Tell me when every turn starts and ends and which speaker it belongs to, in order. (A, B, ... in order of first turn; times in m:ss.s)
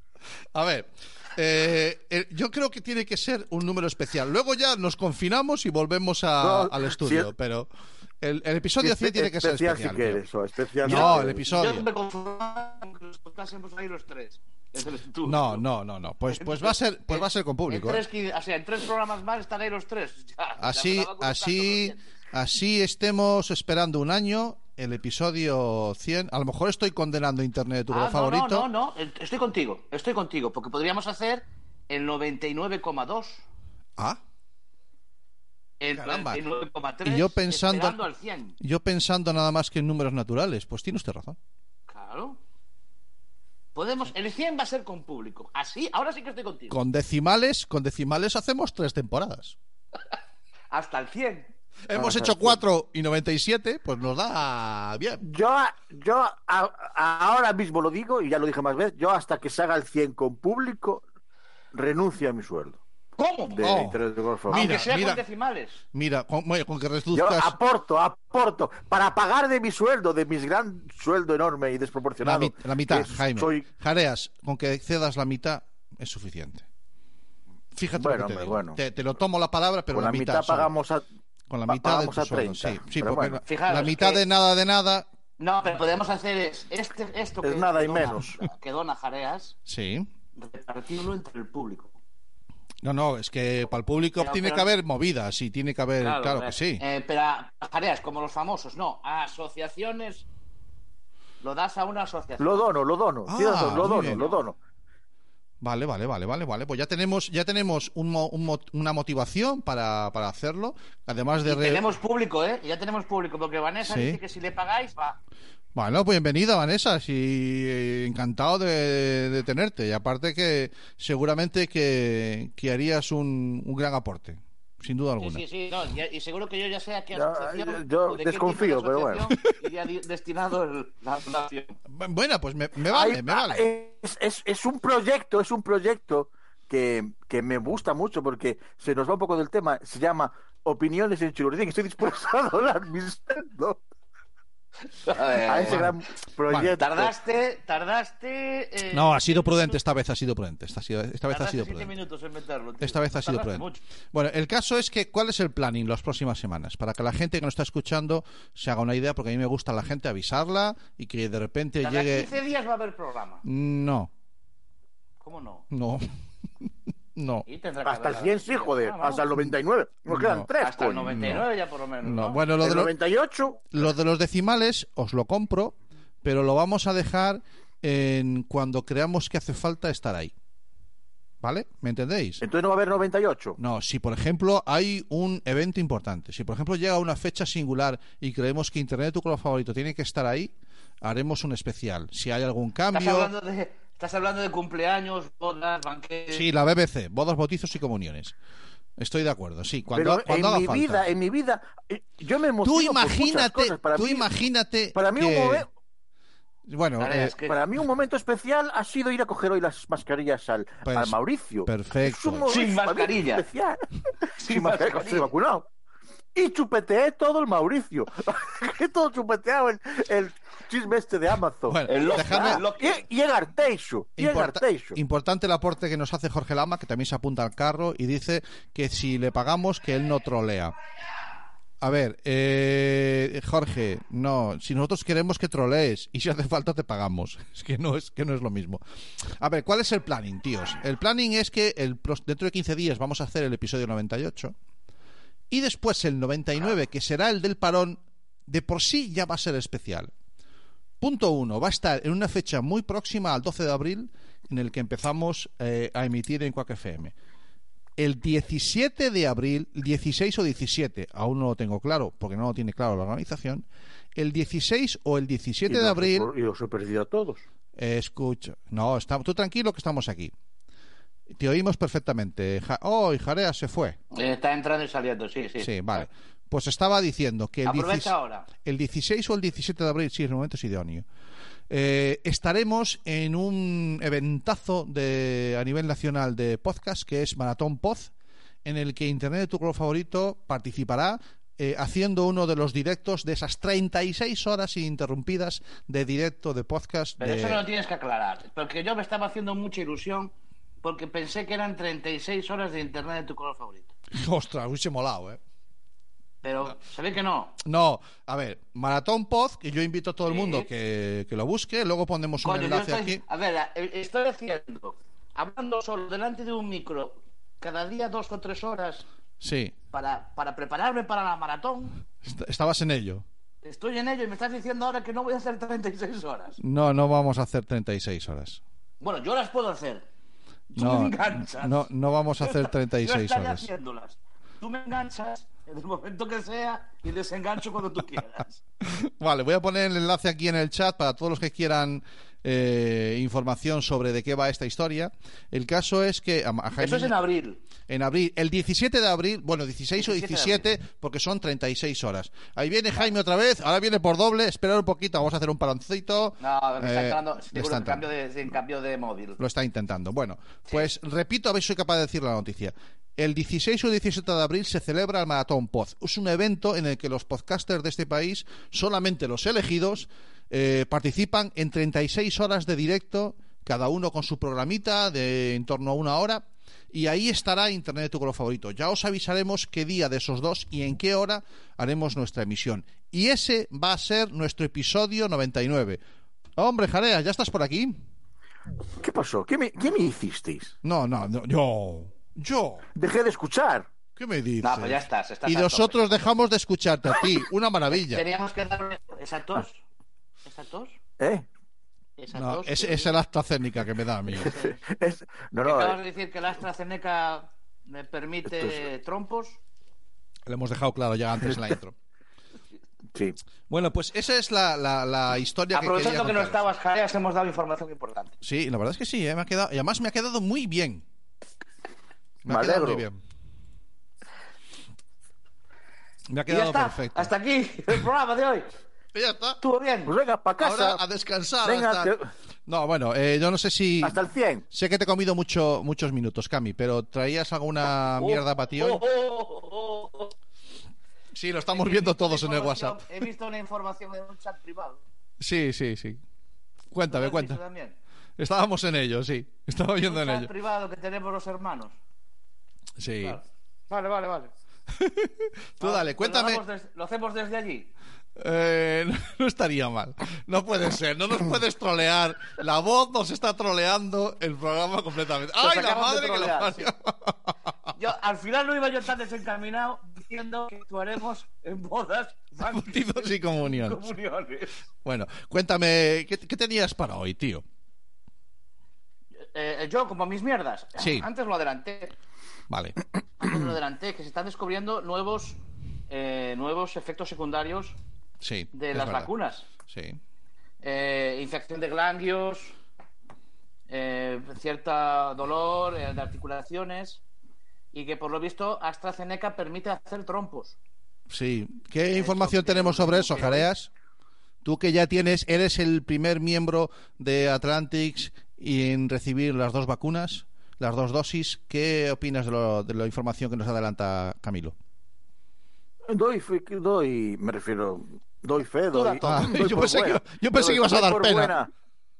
0:00.5-0:07.7 A
0:06.4-0:07.3 B
0:08.2-0:10.2 A
0:08.8-0:11.5 B
0:10.8-0:11.9 A
0:10.8-0:15.6 C
0:15.2-0:18.0 A
0:16.3-0:22.1 C
0:20.6-0:28.7 A
0:27.9-0:33.4 C
0:35.8-0:38.6 C
0:35.9-0:36.4 A
0:37.0-0:38.0 A
0:38.6-0:41.4 A
0:41.9-0:42.4 C
0:43.8-0:46.8 C
0:46.7-0:49.6 A
0:50.7-0:51.5 C
0:51.9-0:55.2 A
0:52.0-0:52.6 B
0:55.2-1:01.0 B
1:01.7-1:02.8 B
1:03.2-1:03.8 C
1:03.5-1:04.7 B
1:03.6-1:05.2 A
1:04.5-1:05.8 C
1:05.9-1:07.6 A
1:07.1-1:13.6 B
1:12.2-1:16.7 A
1:17.8-1:20.7 A
1:18.0-1:18.8 B
1:19.9-1:21.0 B
1:21.5-1:25.1 A
1:21.7-1:23.4 B
1:23.4-1:24.2 C
1:25.4-1:29.5 C
1:27.4-1:28.4 B
1:29.7-1:30.1 A
1:30.4-1:32.0 C
1:32.8-1:36.8 A
1:34.2-1:34.7 C
1:36.0-1:40.3 C
1:41.4-1:42.7 C
1:42.4-1:44.6 B
1:43.3-1:44.3 A
1:44.0-1:44.5 C
1:45.6-1:51.8 A
1:51.4-1:55.2 C
1:53.8-1:54.2 A
1:55.8-2:05.4 A
2:05.2-2:11.8 C
2:07.1-2:09.3 B
2:11.9-2:13.7 A
2:12.9-2:23.8 B
2:25.0-2:25.9 C
2:25.4-2:27.2 B
2:25.7-2:26.8 A
2:26.8-2:29.8 C
2:28.9-2:31.9 A
2:31.3-2:33.8 C
2:32.8-2:42.3 A
2:41.8-2:43.4 C
2:43.4-2:44.1 A
2:45.2-2:45.6 C
2:45.7-2:46.1 A
2:47.2-2:47.5 A
2:47.5-2:49.3 C
2:47.8-2:51.1 B
2:50.1-2:50.5 A
2:50.6-2:52.4 C
2:51.1-2:51.5 A
2:52.0-2:53.0 A
2:52.6-2:53.7 B
2:53.7-3:00.3 A
3:01.4-3:02.4 A
3:02.4-3:03.6 B
3:03.6-3:10.5 A
3:11.0-3:13.3 A
3:12.9-3:16.5 C
3:16.3-3:18.4 A
3:19.0-3:21.1 A
3:19.9-3:24.3 B
3:22.6-3:25.6 A
3:25.0-3:25.7 B
3:26.7-3:27.4 A
3:27.0-3:27.6 C
3:27.4-3:33.9 B
3:30.8-3:32.5 A
3:32.5-3:33.5 C
3:34.4-3:35.3 C
3:34.4-3:35.7 B
3:36.4-3:45.0 B
3:41.7-3:42.6 A
3:41.9-3:43.0 C
3:44.2-3:50.8 A
3:51.8-3:58.8 A
3:59.4-4:04.5 A
4:05.5-4:10.1 A
4:11.0-4:17.1 A
4:18.0-4:23.6 A
4:24.2-4:26.3 A
4:25.7-4:27.4 B
4:27.8-4:30.3 A
4:31.4-4:34.0 A
4:34.1-4:36.1 C
4:35.6-4:38.1 A
4:37.7-4:38.5 C
4:38.6-4:41.0 A
4:41.7-4:48.1 A
4:48.6-4:57.6 A
4:57.2-5:03.9 C
5:04.1-5:05.4 A
5:06.4-5:07.6 C
5:07.6-5:13.2 A
5:10.3-5:10.7 C
5:12.4-5:19.0 C
5:19.4-5:19.7 A
5:19.9-5:22.0 C
5:22.2-5:23.2 A
5:23.6-5:26.6 C
5:26.6-5:28.6 A
5:29.0-5:30.0 C
5:30.7-5:31.9 C
5:30.8-5:33.7 A
5:32.4-5:38.6 C
5:38.8-5:47.2 A
5:46.8-5:47.6 C
5:47.9-5:58.1 A
5:50.0-5:50.6 C
5:56.4-5:59.4 C
5:59.4-6:26.0 A
6:26.6-6:27.9 A
6:29.0-6:30.7 B
6:30.8-6:32.8 A
6:33.0-6:33.9 B
6:34.2-6:38.2 A
6:34.6-6:36.3 C
6:38.0-6:39.8 C
6:40.4-6:41.0 C
6:41.2-6:41.5 B
6:42.2-6:43.1 C
6:42.3-6:44.6 A
6:44.4-6:46.0 B
6:44.4-6:44.8 C
6:45.6-6:49.6 C
6:50.5-6:52.0 A
6:53.7-6:56.6 A
6:55.7-6:58.3 C
6:58.4-7:01.0 A
7:02.4-7:03.2 A
7:02.5-7:03.0 B
7:06.3-7:07.3 A
7:06.5-7:08.7 C
7:09.1-7:09.6 A
7:09.6-7:10.1 C
7:10.1-7:11.0 B
7:10.6-7:12.2 A
7:11.6-7:12.3 B
7:12.7-7:14.2 A
7:14.0-7:14.6 B
7:14.7-7:19.0 A
7:18.1-7:20.3 C
7:21.3-7:23.1 A
7:21.7-7:25.0 C
7:25.4-7:26.2 A
7:26.9-7:27.6 A
7:27.1-7:28.0 C
7:28.4-7:30.5 A
7:30.0-7:32.0 C
7:33.0-7:33.4 A
7:33.2-7:34.5 C
7:34.9-7:36.6 A
7:35.8-7:37.9 C
7:38.4-7:47.5 A
7:45.6-7:46.9 C
7:48.0-7:54.7 C
7:52.6-7:54.0 A
7:55.0-7:57.6 A
7:59.5-8:02.2 C
8:01.0-8:01.3 A
8:02.7-8:03.0 A
8:03.4-8:08.0 C
8:08.4-8:09.3 A
8:08.7-8:09.7 C
8:09.9-8:10.2 A
8:10.8-8:12.8 C
8:13.9-8:17.2 C
8:17.9-8:20.8 C
8:21.3-8:23.9 A
8:22.1-8:23.7 C
8:24.6-8:34.8 A
8:36.1-8:41.7 B
8:38.9-8:39.5 C
8:39.2-8:41.6 A